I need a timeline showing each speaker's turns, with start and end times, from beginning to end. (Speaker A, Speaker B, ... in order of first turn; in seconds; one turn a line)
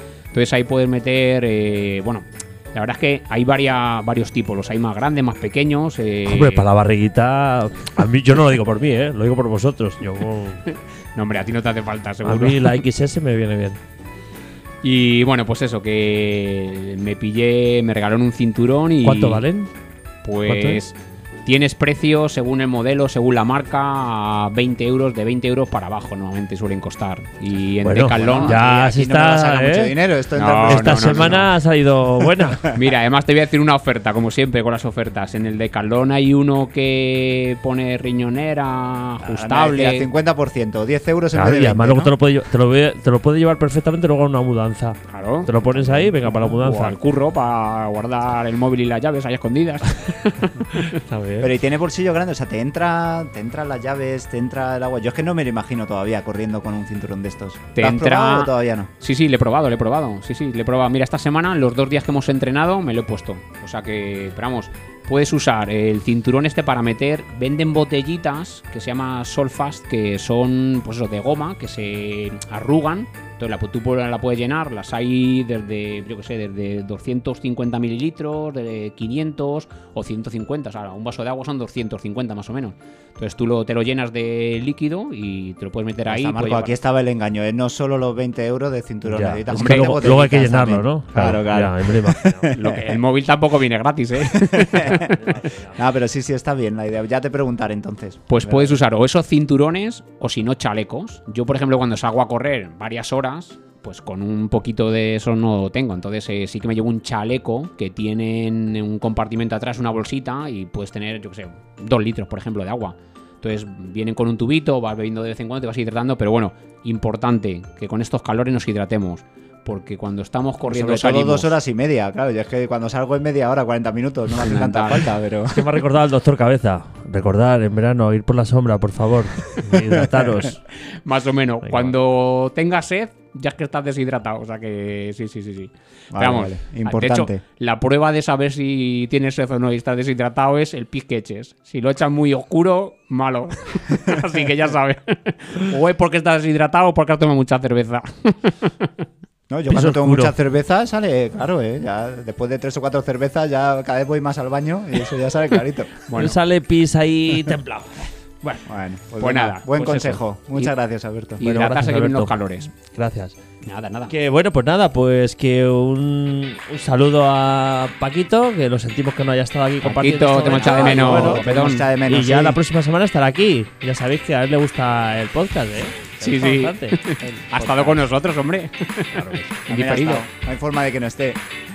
Speaker A: 0.3-6.7
Speaker B: 6.3-10.7
Speaker A: 10.7-12.8
Speaker B: 12.2-13.8
Speaker A: 14.8-19.4
Speaker B: 19.0-19.7
Speaker A: 20.2-28.6
Speaker B: 20.4-20.8
Speaker B: 27.8-29.9
Speaker C: 28.1-31.4
Speaker A: 30.4-31.5
Speaker B: 30.6-32.6
Speaker C: 32.4-32.8
Speaker A: 32.7-40.1
Speaker C: 39.2-42.1
Speaker B: 41.3-47.0
Speaker A: 45.1-51.0
Speaker B: 50.8-51.5
Speaker C: 51.4-58.9
Speaker A: 57.7-86.7
Speaker C: 86.0-92.8
Speaker B: 89.0-92.5
Speaker A: 89.5-90.2
Speaker A: 92.5-95.1
Speaker C: 94.3-95.1
Speaker B: 94.9-95.8
Speaker C: 95.7-98.8
Speaker A: 98.3-121.5
Speaker C: 120.7-125.7
Speaker A: 124.4-125.1
Speaker B: 125.5-130.6
Speaker A: 130.9-148.9
Speaker B: 131.7-131.9
Speaker C: 136.1-137.4
Speaker C: 149.5-155.9
Speaker B: 149.7-150.3
Speaker A: 156.1-156.4
Speaker B: 156.1-158.6
Speaker C: 158.7-161.4
Speaker A: 159.2-160.7
Speaker A: 161.4-162.7
Speaker B: 161.4-163.4
Speaker A: 163.6-164.1
Speaker B: 164.1-171.4
Speaker A: 169.8-171.9
Speaker C: 170.3-172.6
Speaker B: 172.1-177.0
Speaker A: 176.2-180.2
Speaker C: 177.2-178.1
Speaker B: 179.2-179.4
Speaker C: 179.7-181.4